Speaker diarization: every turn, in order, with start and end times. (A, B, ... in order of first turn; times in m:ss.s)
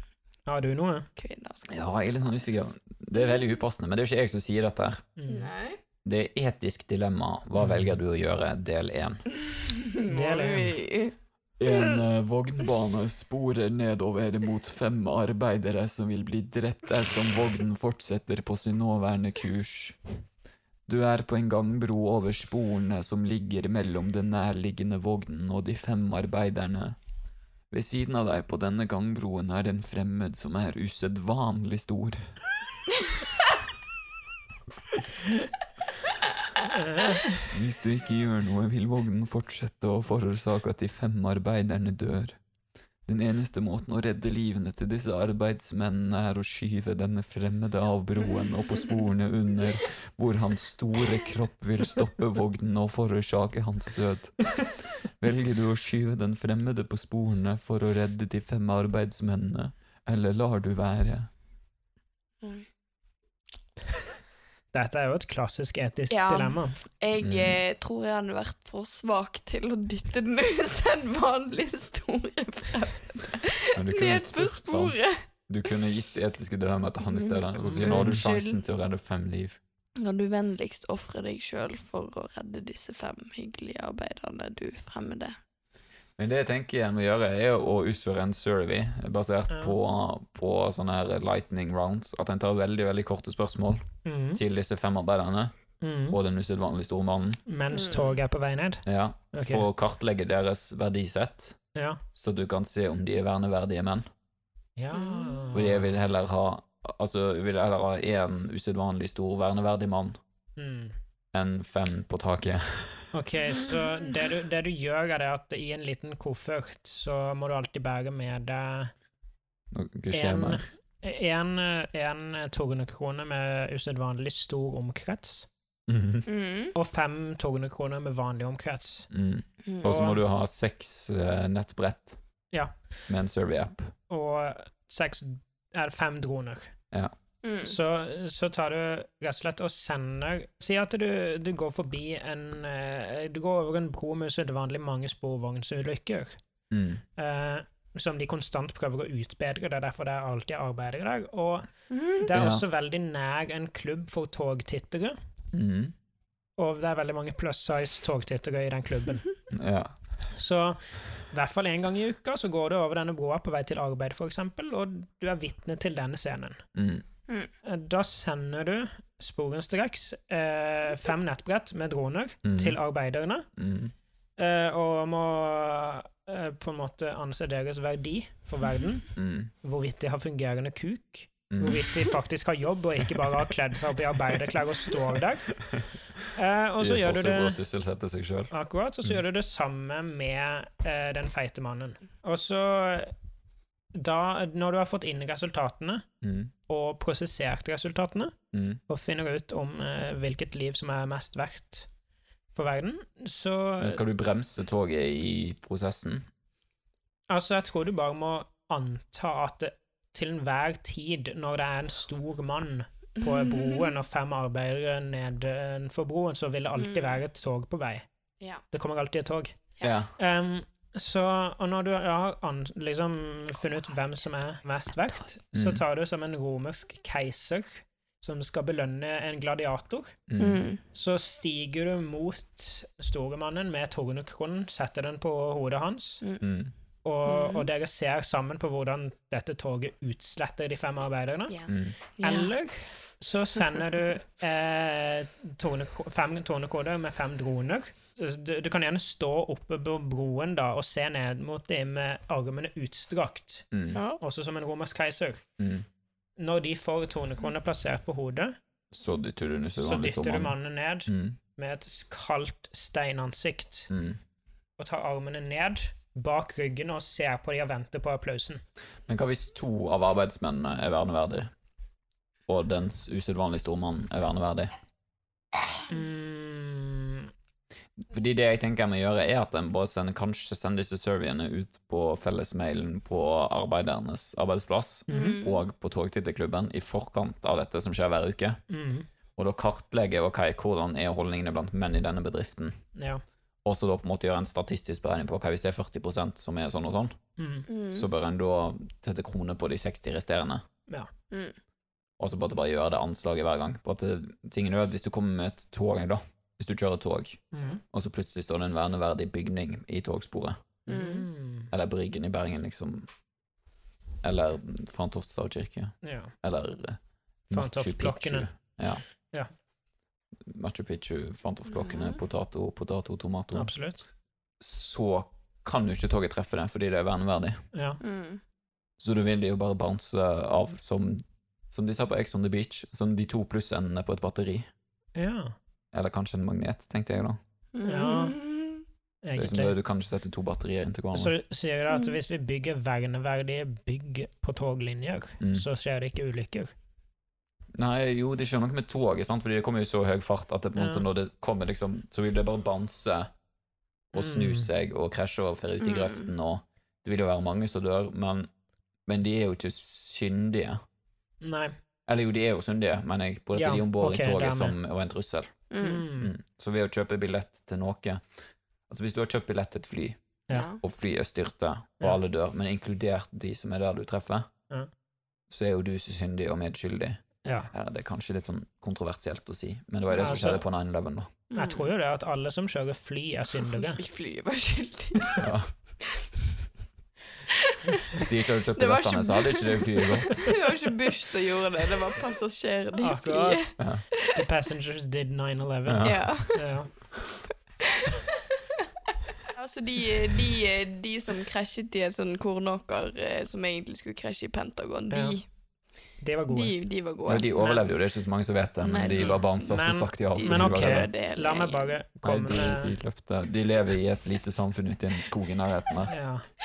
0:00.5-0:01.1 A
0:01.2-0:02.2 B
0:01.7-0:05.0 C
0:05.2-0:05.5 A
0:05.3-0:05.8 B
0:06.0-0:09.2 C
0:07.6-0:07.9 A
0:09.4-0:11.2 B
0:10.0-0:10.8 A
0:11.6-0:20.0 C
0:11.7-0:12.0 B
0:20.9-0:27.0 C
0:27.7-0:32.4 C
0:36.7-0:37.5 A
0:37.5-0:42.4 C
0:43.0-1:01.3 C
1:02.4-1:02.7 B
1:04.7-1:06.8 A
1:06.1-1:15.2 B
1:07.2-1:07.6 C
1:13.7-1:15.0 C
1:15.5-1:19.6 C
1:17.0-1:18.6 B
1:17.6-1:18.2 A
1:20.0-1:25.4 B
1:26.2-1:35.5 C
1:29.5-1:29.8 A
1:34.0-1:34.4 A
1:35.8-1:36.2 A
1:36.1-1:37.4 C
1:37.5-1:39.7 A
1:37.7-1:38.2 B
1:38.8-1:41.6 C
1:41.7-1:42.0 A
1:42.1-1:44.0 C
1:44.8-1:45.8 A
1:44.9-1:45.6 B
1:45.5-1:50.2 C
1:50.6-1:50.9 A
1:51.3-1:53.1 C
1:53.1-1:58.9 A
1:59.7-2:00.6 C
2:00.1-2:05.5 A
2:05.9-2:06.2 C
2:06.2-2:06.7 B
2:06.7-2:09.1 A
2:09.1-2:12.2 C
2:09.8-2:10.2 A
2:12.5-2:12.8 A
2:13.1-2:13.9 C
2:14.1-2:16.7 A
2:17.4-2:17.8 B
2:17.6-2:26.4 A
2:26.7-2:27.0 C
2:27.2-2:35.2 A
2:31.9-2:32.2 B
2:32.3-2:32.6 C
2:35.5-2:35.9 C
2:36.6-2:39.3 A
2:39.5-2:39.9 C
2:40.3-2:46.6 A
2:46.7-2:47.0 C
2:47.6-2:53.5 A
2:52.4-2:52.8 C
2:53.6-2:53.9 C
2:54.4-3:05.5 A
2:59.2-2:59.5 C
3:01.5-3:02.0 C
3:05.6-3:05.9 C
3:06.3-3:07.6 A
3:06.8-3:08.5 C
3:08.5-3:13.1 A
3:13.9-3:16.0 A
3:16.2-3:16.5 C
3:16.7-3:18.3 A
3:18.5-3:18.8 C
3:18.9-3:21.9 A
3:22.5-3:24.0 A
3:23.8-3:26.2 C
3:27.3-3:38.0 A
3:33.2-3:33.8 B
3:36.8-3:37.2 B
3:38.7-3:39.6 A
3:39.8-3:40.1 C
3:40.2-3:50.2 A
3:45.5-3:45.8 C
3:50.3-3:50.6 C
3:50.4-3:50.8 B
3:50.9-3:56.2 A
3:56.4-3:56.7 C
3:57.0-4:01.6 A
3:57.2-3:57.7 B
4:01.5-4:02.5 B
4:01.7-4:02.0 C
4:02.2-4:13.7 A
4:13.7-4:14.0 C
4:13.9-4:14.2 B
4:14.2-4:15.4 A
4:15.6-4:15.8 C
4:16.4-4:18.6 A
4:18.9-4:20.6 C
4:19.8-4:23.9 A
4:21.1-4:21.4 C
4:23.9-4:24.2 C
4:24.8-4:28.6 A
4:29.1-4:31.5 C
4:32.5-4:34.7 C
4:35.9-4:37.3 A
4:38.0-4:48.6 C
4:45.1-4:45.4 A
4:45.1-4:45.6 B
4:48.7-4:49.1 A
4:49.4-4:52.8 C
4:52.9-4:53.2 A
4:53.6-4:57.2 C
4:57.4-4:57.7 A
4:57.7-4:58.1 B
4:57.9-5:00.6 C
5:01.3-5:01.6 B
5:02.2-5:10.6 C
5:07.5-5:07.8 A
5:10.9-5:11.7 A
5:10.9-5:11.3 B
5:11.7-5:13.1 C
5:14.2-5:19.0 C
5:16.0-5:16.3 A
5:17.5-5:18.5 A
5:20.4-5:23.7 C
5:21.7-5:22.2 B
5:23.5-5:24.0 A
5:24.6-5:27.6 C
5:27.7-5:28.0 A
5:28.0-5:28.4 B
5:29.0-5:34.7 C
5:35.2-5:35.5 A
5:35.9-5:37.4 C
5:37.7-5:38.8 B
5:37.8-5:38.4 A
5:39.2-5:39.7 A
5:39.4-5:41.3 C
5:41.1-5:46.7 A
5:41.9-5:42.2 B
5:45.4-5:45.6 C
5:47.8-5:53.3 C
5:50.8-5:51.0 A
5:54.1-5:58.5 C
5:54.1-5:54.7 A
5:55.8-5:56.3 B
5:59.1-6:00.8 C
6:01.4-6:01.7 A
6:02.1-6:05.6 C
6:03.5-6:04.8 A
6:05.7-6:06.1 B
6:05.8-6:06.3 A
6:06.2-6:08.2 C
6:08.9-6:10.2 C
6:10.5-6:10.8 B
6:10.8-6:14.5 C
6:15.5-6:21.3 C
6:17.4-6:17.7 A
6:20.1-6:20.5 B
6:20.2-6:20.6 A
6:21.5-6:21.9 B
6:21.5-6:24.0 A
6:23.6-6:25.4 B
6:25.4-6:25.7 C
6:26.0-6:26.4 B
6:27.5-6:34.3 B
6:28.1-6:30.5 C
6:33.0-6:36.9 A
6:35.8-6:36.2 C
6:36.0-6:36.7 B
6:37.8-6:38.4 B
6:39.4-6:45.5 B
6:45.1-6:45.4 A
6:46.2-6:46.8 A
6:46.5-6:47.5 B
6:47.2-6:51.1 C
6:47.6-6:47.8 A
6:48.8-6:49.5 B
6:49.2-6:53.0 A
6:50.4-6:52.0 B
6:52.2-6:56.1 C
6:56.1-6:56.4 A